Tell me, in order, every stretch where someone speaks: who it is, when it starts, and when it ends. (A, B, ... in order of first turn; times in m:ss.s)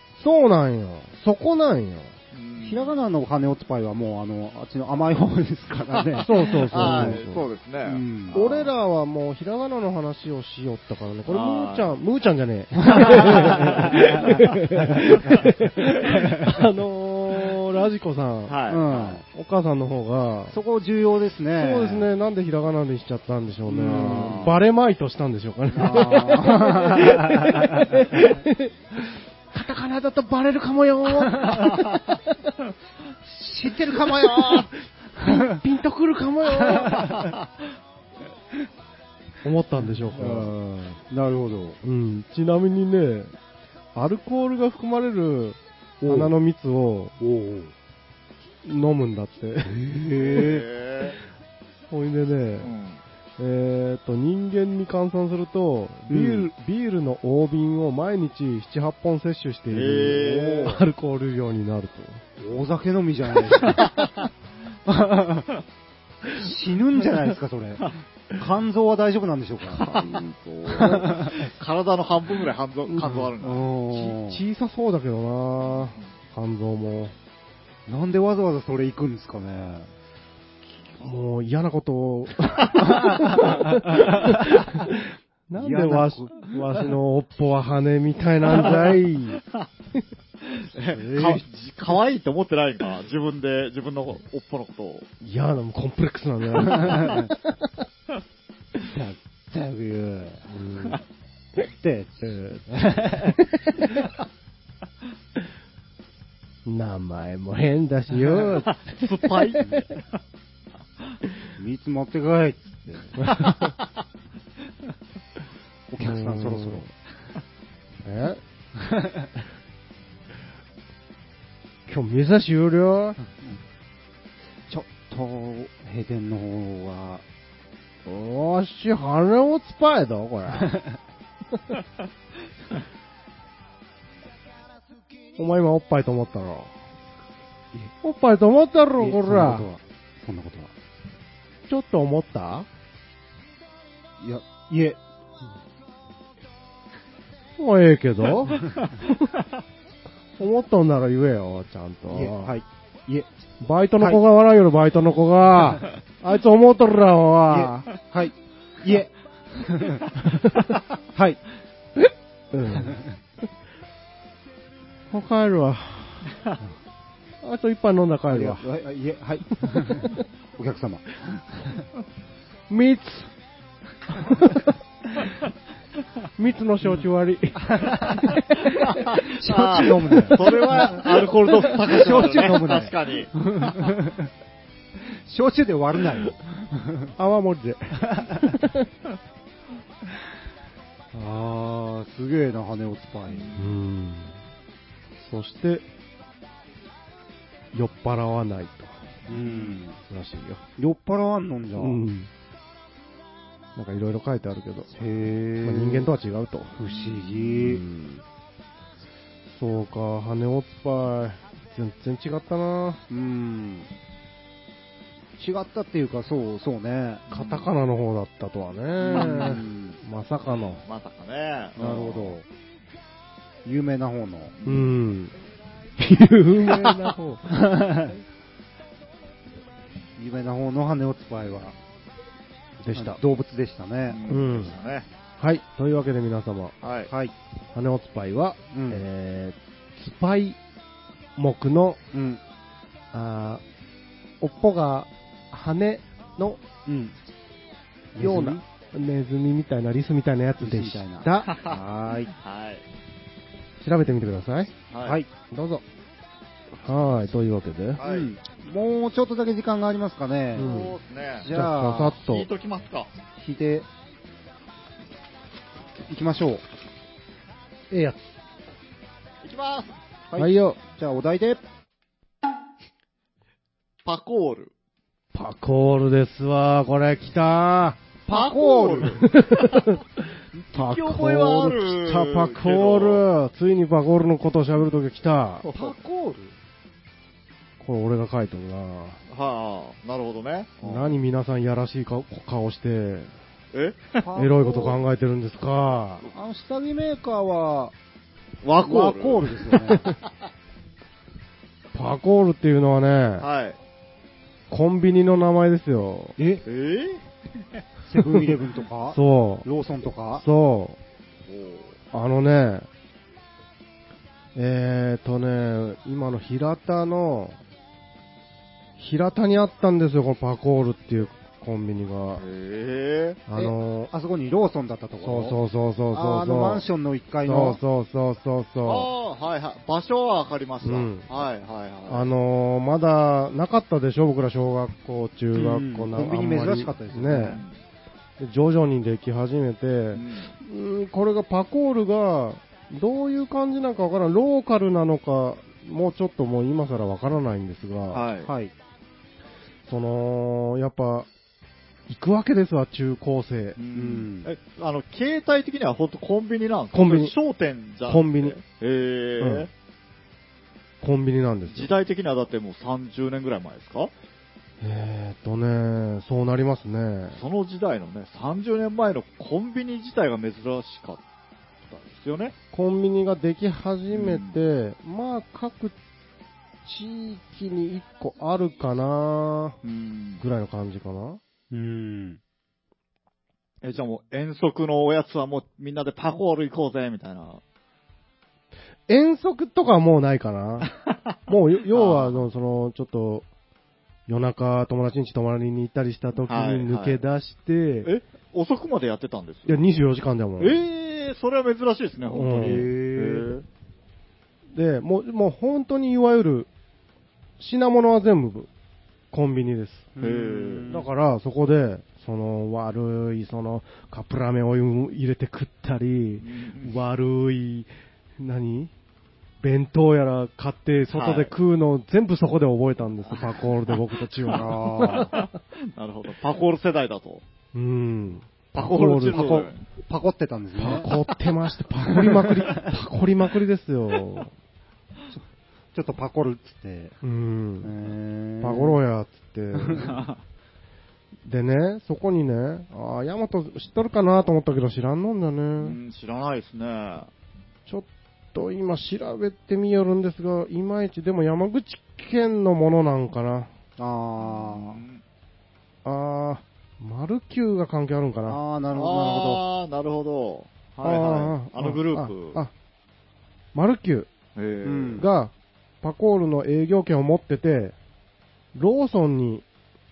0:00.2-0:02.2 A
0:02.3-0:03.0 B
0:02.6-0:07.2 C
0:06.2-0:08.7 B
0:06.2-0:07.4 A
0:07.8-0:08.4 C
0:08.3-0:18.6 A
0:11.3-0:12.0 B
0:13.0-0:13.6 C
0:13.1-0:14.5 B
0:16.2-0:16.4 C
0:18.5-0:19.2 B
0:18.7-0:19.2 C
0:19.3-0:20.6 A
0:20.5-0:22.1 C
0:21.6-0:32.3 A
0:23.7-0:24.6 C
0:23.9-0:24.6 B
0:25.7-0:28.3 C
0:31.2-0:31.8 C
0:33.2-0:35.6 C
0:34.1-0:37.3 A
0:36.6-0:37.4 C
0:39.4-0:40.6 A
0:39.8-0:41.8 C
0:41.8-0:43.3 A
0:44.0-0:47.2 A
0:46.0-0:46.3 C
0:47.2-0:47.7 C
0:48.6-0:49.7 A
0:49.6-0:50.7 C
0:50.2-0:51.2 B
0:51.9-0:52.7 A
0:52.6-0:53.0 B
0:53.4-1:02.2 A
0:56.1-0:56.5 C
0:59.7-1:00.8 B
1:00.1-1:00.7 C
1:02.4-1:03.9 C
1:03.8-1:04.3 B
1:04.9-1:05.5 C
1:06.3-1:11.5 C
1:09.7-1:14.0 B
1:12.9-1:13.2 A
1:13.1-1:14.4 C
1:14.1-1:17.1 A
1:15.6-1:16.0 B
1:17.9-1:19.9 C
1:21.0-1:29.4 A
1:22.9-1:24.6 C
1:25.6-1:26.5 C
1:30.4-1:35.1 B
1:30.8-1:31.4 C
1:35.2-1:37.8 A
1:36.7-1:37.3 C
1:38.8-1:40.5 C
1:40.5-1:41.0 A
1:41.7-1:43.4 C
1:42.4-1:44.0 A
1:46.6-1:49.6 A
1:48.4-1:50.0 B
1:51.6-1:53.2 C
1:53.2-1:53.7 A
1:53.3-1:53.9 B
1:55.9-1:56.9 C
1:56.0-1:56.9 A
1:58.0-1:58.4 A
1:58.8-1:59.3 C
2:01.9-2:03.2 A
2:04.7-2:07.2 C
2:08.0-2:10.8 A
2:15.4-2:16.7 A
2:18.0-2:19.7 A
2:19.0-2:20.7 C
2:21.7-2:22.7 A
2:24.2-2:25.0 C
2:27.6-2:29.3 A
2:30.4-2:32.5 A
2:32.1-2:33.3 C
2:33.6-2:37.9 A
2:37.5-2:40.1 C
2:40.2-2:40.7 A
2:41.1-2:41.4 C
2:42.5-2:43.0 A
2:42.7-2:43.1 C
2:45.1-2:46.4 A
2:47.4-2:48.6 A
2:48.3-2:51.8 C
2:49.6-2:50.2 A
2:52.7-2:53.3 A
2:54.1-2:54.8 A
2:56.4-2:59.2 A
2:57.6-2:58.4 C
2:58.7-3:03.4 B
2:59.0-3:01.2 C
3:00.3-3:01.0 A
3:01.7-3:04.3 C
3:01.9-3:02.9 A
3:05.1-3:07.1 C
3:07.2-3:08.9 A
3:08.1-3:08.5 C
3:11.1-3:13.5 C
3:13.3-3:13.7 B
3:13.5-3:14.4 A
3:15.2-3:15.8 A
3:17.7-3:19.0 A
3:19.3-3:19.8 B
3:19.3-3:20.0 C
3:20.0-3:20.6 A
3:20.8-3:22.0 C
3:21.8-3:22.3 A
3:23.8-3:24.9 A
3:25.0-3:26.1 C
3:25.6-3:26.8 A
3:26.8-3:27.8 C
3:26.9-3:27.3 B
3:27.5-3:28.2 A
3:29.5-3:33.0 A
3:33.1-3:33.9 C
3:35.4-3:37.3 C
3:37.3-3:40.8 A
3:39.0-3:40.0 C
3:39.1-3:39.6 B
3:40.8-3:42.4 B
3:41.8-3:42.4 C
3:43.6-3:44.6 C
3:44.6-3:44.9 B
3:44.6-3:45.3 A
3:46.0-3:47.6 A
3:47.5-3:48.2 C
3:50.2-3:51.8 C
3:52.8-3:53.2 A
3:52.9-3:54.2 C
3:54.1-3:55.1 B
3:54.3-3:54.8 A
3:55.4-3:56.8 A
3:56.8-3:57.1 B
3:57.1-3:57.3 C
3:57.7-4:00.6 A
3:58.7-3:59.0 C
4:01.4-4:02.0 A
4:02.1-4:02.4 C
4:03.1-4:03.6 A
4:04.4-4:06.6 A
4:06.9-4:07.2 C
4:08.2-4:08.6 C
4:08.2-4:11.5 A
4:10.6-4:12.3 C
4:11.4-4:12.8 B
4:13.8-4:14.7 A
4:14.9-4:15.2 B
4:15.0-4:15.3 C
4:15.5-4:15.8 A
4:16.8-4:18.0 A
4:18.0-4:18.3 B
4:18.0-4:22.2 C
4:20.6-4:21.0 A
4:20.6-4:23.1 B
4:21.5-4:22.5 A
4:23.4-4:23.9 C
4:26.1-4:26.6 C
4:27.9-4:28.3 A
4:29.4-4:30.0 B
4:30.3-4:31.6 C
4:30.4-4:30.8 A
4:34.0-4:34.7 B
4:35.3-4:38.0 A
4:38.3-4:39.2 C
4:38.3-4:39.9 B
4:39.2-4:45.7 A
4:40.7-4:43.3 B
4:45.6-4:46.5 B
4:47.8-4:49.2 A
4:49.3-4:51.2 B
4:50.8-4:53.3 A
4:53.7-4:54.2 B
4:54.2-4:55.0 C
4:54.4-4:56.3 A
4:56.3-4:58.0 C
4:58.6-4:59.9 B
4:58.8-5:00.1 C
4:59.9-5:00.1 A
5:01.9-5:03.5 A
5:03.4-5:03.8 B
5:04.7-5:06.4 A
5:06.4-5:06.6 C
5:06.7-5:07.2 B
5:08.1-5:10.4 C
5:09.1-5:09.7 A
5:10.4-5:11.0 A
5:11.4-5:12.0 B
5:12.1-5:12.9 A
5:14.6-5:17.6 A
5:19.0-5:22.4 A
5:22.4-5:23.4 B
5:23.5-5:24.1 A
5:23.5-5:25.6 C
5:25.2-5:26.9 A
5:26.1-5:27.8 C
5:27.5-5:29.1 A
5:28.8-5:32.3 B
5:30.8-5:31.3 A
5:32.1-5:37.6 A
5:35.5-5:37.6 C
5:37.3-5:37.7 B
5:38.4-5:48.2 A
5:40.1-5:40.5 B
5:48.1-5:48.5 B
5:48.4-5:48.7 C
5:49.9-5:51.3 A
5:52.1-5:53.8 A
5:53.8-5:59.7 B
5:53.9-5:54.5 C
5:56.9-5:57.3 A
5:58.1-5:58.6 A
5:59.4-5:59.7 A
6:01.0-6:01.9 A
6:01.7-6:04.1 B
6:04.8-6:07.4 A
6:07.3-6:11.2 B
6:11.9-6:12.5 B
6:12.7-6:16.0 A
6:14.1-6:14.6 B
6:16.8-6:19.8 A
6:19.8-6:20.4 B
6:20.4-6:21.4 A
6:21.7-6:22.4 C
6:23.8-6:27.6 B
6:29.1-6:30.9 A
6:30.8-6:31.3 B
6:31.5-6:33.5 A
6:31.9-6:32.5 B
6:34.3-6:38.1 A
6:36.5-6:37.2 B
6:38.0-6:39.9 B
6:39.7-6:40.8 A
6:40.6-6:43.6 B
6:42.3-6:42.8 A
6:42.6-6:43.6 C
6:44.7-6:46.7 A
6:47.6-6:48.7 A
6:49.3-6:50.1 A
6:50.2-6:51.1 C
6:50.2-6:51.0 B
6:50.9-6:58.9 A
6:56.4-6:57.0 B
6:59.6-7:05.5 A
7:01.1-7:01.5 B
7:03.4-7:03.7 B
7:04.5-7:07.4 B
7:04.5-7:05.3 C
7:07.7-7:09.7 A
7:08.7-7:09.8 B
7:09.3-7:11.1 C
7:10.8-7:14.5 A
7:12.1-7:12.9 C
7:15.3-7:17.2 C
7:17.2-7:17.9 A
7:17.8-7:19.0 C
7:18.6-7:20.1 A
7:20.0-7:20.4 B
7:21.4-7:26.0 A
7:25.8-7:27.3 B
7:27.9-7:33.7 A
7:34.0-7:35.0 C
7:34.4-7:35.2 B
7:36.0-7:38.6 A
7:38.5-7:39.6 C
7:38.9-7:42.6 B
7:41.0-7:42.7 A
7:43.7-7:44.3 A
7:44.6-7:45.3 B
7:44.8-7:45.2 C
7:45.2-7:48.0 A
7:48.8-7:49.6 A